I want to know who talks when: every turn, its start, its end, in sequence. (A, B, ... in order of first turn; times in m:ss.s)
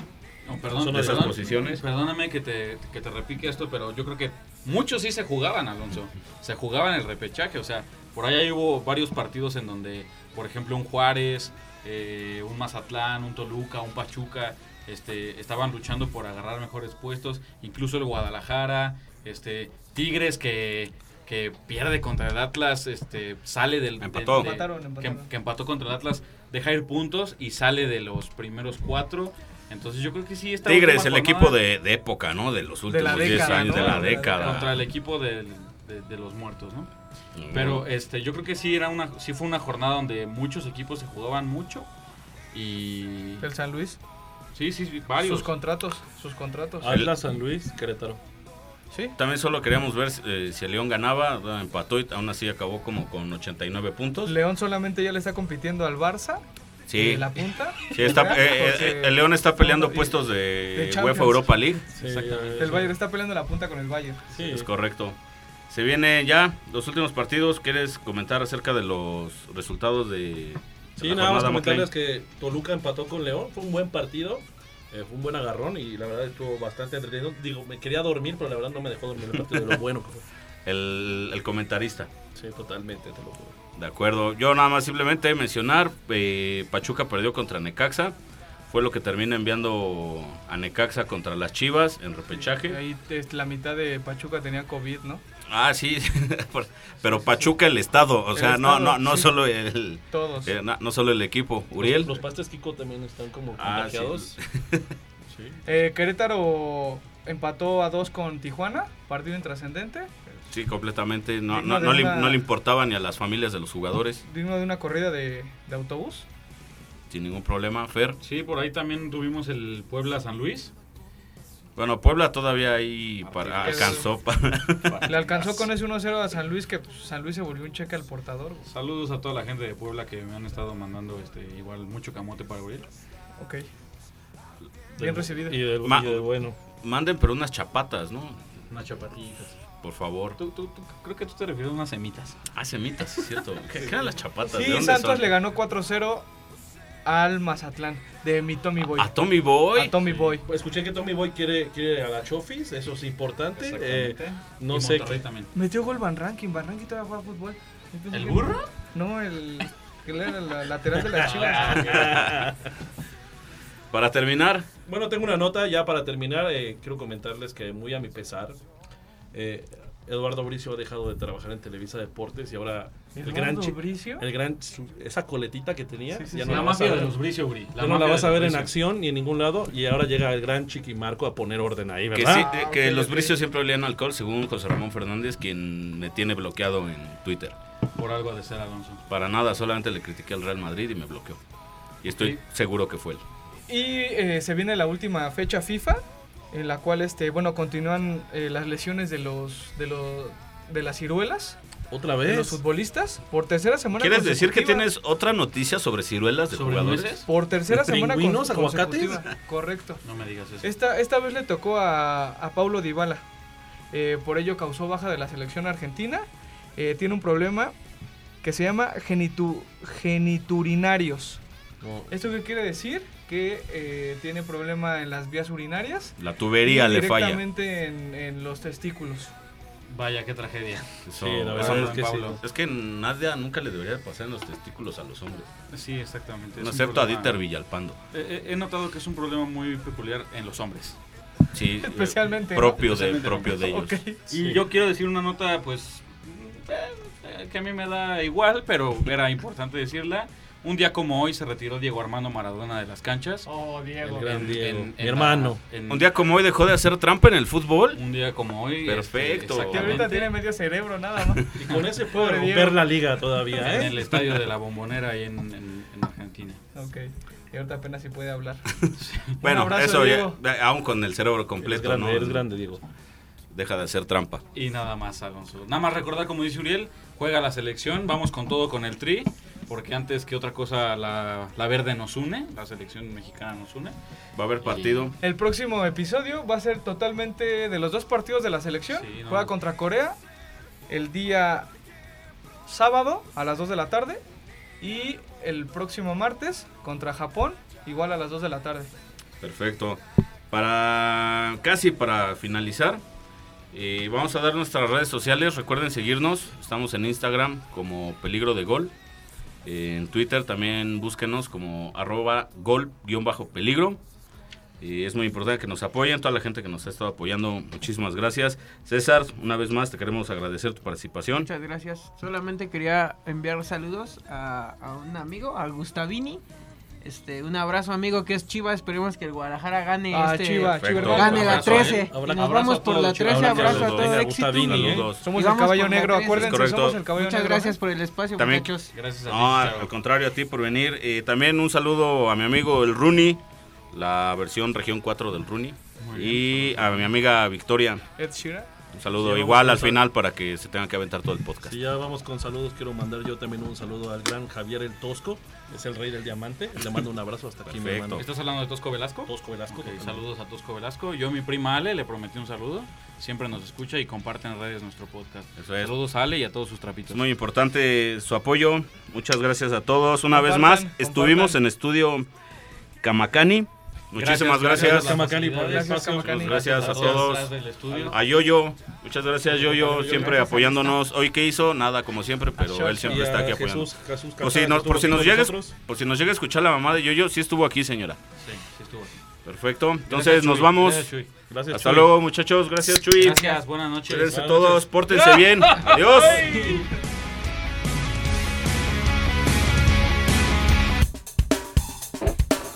0:00.4-0:31.6 A
0:00.8-0:01.4 B
0:00.8-0:01.8 C
0:24.0-0:24.5 C
0:24.4-0:25.3 D
0:30.6-0:34.8 C
0:32.9-0:34.6 D
0:33.1-0:36.9 A
0:37.4-0:37.9 C
0:37.5-0:41.9 A
0:42.5-0:43.5 A
0:43.4-0:44.0 D
0:44.6-0:45.4 A
0:45.3-0:47.0 D
0:46.8-0:48.2 B
0:48.9-0:49.2 D
0:49.2-0:54.4 C
0:54.2-0:56.4 D
0:56.9-0:57.3 C
0:56.9-1:01.8 D
0:57.8-1:01.9 C
1:02.0-1:02.8 B
1:02.0-1:02.9 A
1:02.6-1:04.3 D
1:04.3-1:04.7 B
1:04.4-1:05.2 C
1:05.7-1:11.9 C
1:11.0-1:20.2 B
1:20.6-1:22.1 C
1:22.4-1:23.6 B
1:23.8-1:28.2 C
1:28.7-1:32.8 C
1:32.3-1:35.2 D
1:35.5-1:42.2 C
1:37.1-1:37.5 D
1:38.3-1:39.4 D
1:40.1-1:40.6 D
1:41.8-1:44.4 B
1:43.6-1:44.9 C
1:45.7-1:50.3 D
1:50.5-1:54.2 C
1:51.5-1:52.4 D
1:54.2-1:56.3 D
1:57.1-1:58.2 C
1:58.2-2:00.7 A
2:01.8-2:05.1 C
2:03.2-2:04.1 A
2:03.6-2:04.1 D
2:04.8-2:05.6 A
2:05.0-2:08.7 D
2:08.7-2:12.9 A
2:13.4-2:13.7 D
2:15.0-2:16.6 B
2:15.0-2:15.7 D
2:15.8-2:16.3 C
2:16.8-2:18.4 C
2:18.7-2:19.6 A
2:19.8-2:20.4 C
2:20.4-2:22.4 A
2:22.5-2:25.3 C
2:23.4-2:23.8 A
2:24.4-2:26.3 D
2:27.0-2:30.4 D
2:29.0-2:30.0 C
2:30.4-2:35.2 B
2:33.6-2:35.5 A
2:35.5-2:42.1 D
2:38.1-2:38.7 A
2:41.2-2:42.6 B
2:41.2-2:42.4 A
2:42.0-2:42.5 C
2:43.9-2:44.7 C
2:44.9-2:48.6 B
2:49.3-2:57.2 B
2:53.1-2:54.2 D
2:56.1-2:56.7 D
2:56.4-2:58.7 A
2:57.8-3:02.5 B
3:02.1-3:07.5 C
3:02.3-3:03.4 D
3:08.0-3:09.0 A
3:09.1-3:11.4 C
3:12.0-3:13.2 C
3:12.1-3:12.4 A
3:13.7-3:21.6 D
3:21.9-3:22.6 B
3:22.2-3:24.9 D
3:24.0-3:27.2 C
3:26.5-3:27.3 A
3:27.2-3:30.0 D
3:27.7-3:29.2 B
3:30.0-3:30.7 A
3:30.6-3:33.2 D
3:33.9-3:37.8 D
3:38.4-3:41.4 D
3:41.8-3:42.2 B
3:42.1-3:49.3 D
3:46.2-3:47.4 C
3:49.9-3:52.4 A
3:51.1-3:55.5 C
3:51.2-3:52.4 B
3:55.7-3:57.4 A
3:56.6-3:58.0 C
3:58.1-4:01.0 A
4:01.5-4:04.0 C
4:01.8-4:02.9 D
4:02.8-4:03.6 A
4:03.6-4:04.3 D
4:04.3-4:13.5 A
4:04.3-4:04.6 B
4:13.4-4:14.4 D
4:14.0-4:15.6 B
4:14.2-4:16.1 A
4:15.9-4:18.0 C
4:18.0-4:20.3 A
4:18.8-4:20.0 C
4:19.7-4:21.4 D
4:21.5-4:24.1 B
4:22.1-4:23.0 D
4:23.5-4:23.8 D
4:23.6-4:26.6 A
4:26.8-4:28.6 D
4:29.0-4:29.3 A
4:29.4-4:30.4 D
4:29.4-4:32.5 C
4:31.6-4:32.8 B
4:33.5-4:34.4 C
4:34.6-4:44.0 A
4:44.4-4:45.2 C
4:44.6-4:45.1 A
4:45.2-4:50.2 D
4:48.9-4:49.5 A
4:50.9-4:51.7 D
4:52.7-4:54.2 D
4:54.8-4:58.9 D
4:59.4-5:03.0 C
5:03.7-5:08.9 C
5:09.6-5:14.0 C
5:14.8-5:21.5 C
5:21.4-5:26.4 E
5:27.0-5:38.9 E
5:30.1-5:31.8 D
5:30.8-5:32.0 C
5:31.0-5:33.8 A
5:31.8-5:35.1 B
5:33.3-5:35.3 C
5:35.1-5:37.8 D
5:36.3-5:37.0 C
5:38.4-5:38.7 C
5:38.9-5:39.9 A
5:39.3-5:48.0 C
5:46.0-5:47.1 A
5:48.2-5:48.7 D
5:48.9-5:51.8 C
5:49.2-5:50.0 B
5:51.6-5:58.2 B
5:57.7-5:58.2 C
5:58.2-6:07.2 A
5:59.3-6:00.2 B
6:05.6-6:05.9 C
6:07.1-6:12.3 C
6:10.3-6:11.6 D
6:13.0-6:15.2 C
6:14.2-6:18.2 A
6:14.7-6:17.2 B
6:15.6-6:17.2 D
6:16.2-6:28.2 C
6:19.5-6:20.8 B
6:20.1-6:20.9 D
6:22.6-6:23.1 D
6:23.0-6:25.8 B
6:28.4-6:29.2 A
6:29.4-6:31.1 C
6:30.1-6:31.3 A
6:31.5-6:32.1 B
6:31.7-6:33.5 C
6:33.1-6:34.5 A
6:34.0-6:36.7 C
6:34.2-6:34.9 B
6:35.1-6:36.9 A
6:36.2-6:36.9 D